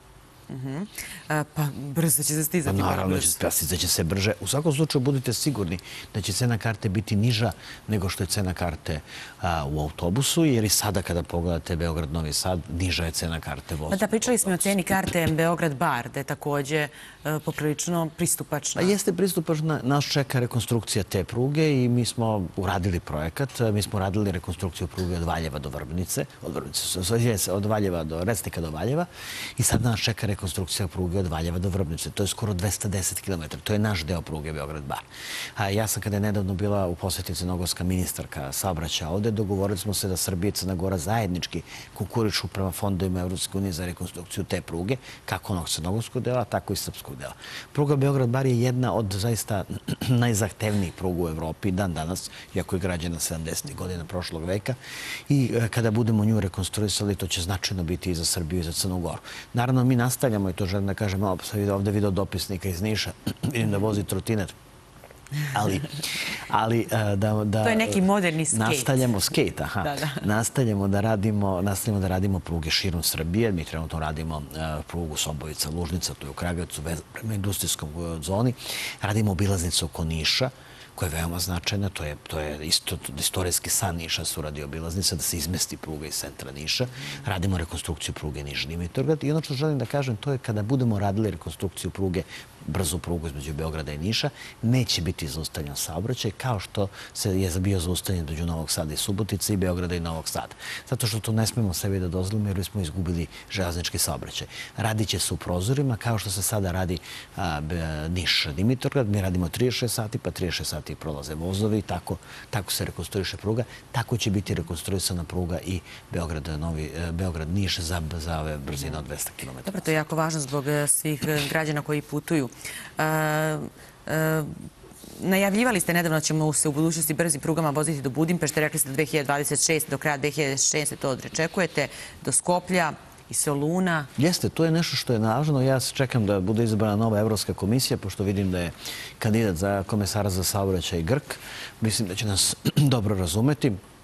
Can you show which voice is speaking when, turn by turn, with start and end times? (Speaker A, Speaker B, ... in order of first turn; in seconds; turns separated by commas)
Speaker A: 0.5-3.4, Speaker B: 2.6-14.9, Speaker A: 13.9-18.9, Speaker B: 18.8-35.0, Speaker B: 35.6-54.8, Speaker B: 55.3-64.5, Speaker B: 65.5-66.0, Speaker B: 66.5-120.0, Speaker A: 67.6-69.0, Speaker A: 69.8-70.2, Speaker A: 119.7-124.6, Speaker A: 125.2-134.1, Speaker B: 134.2-143.8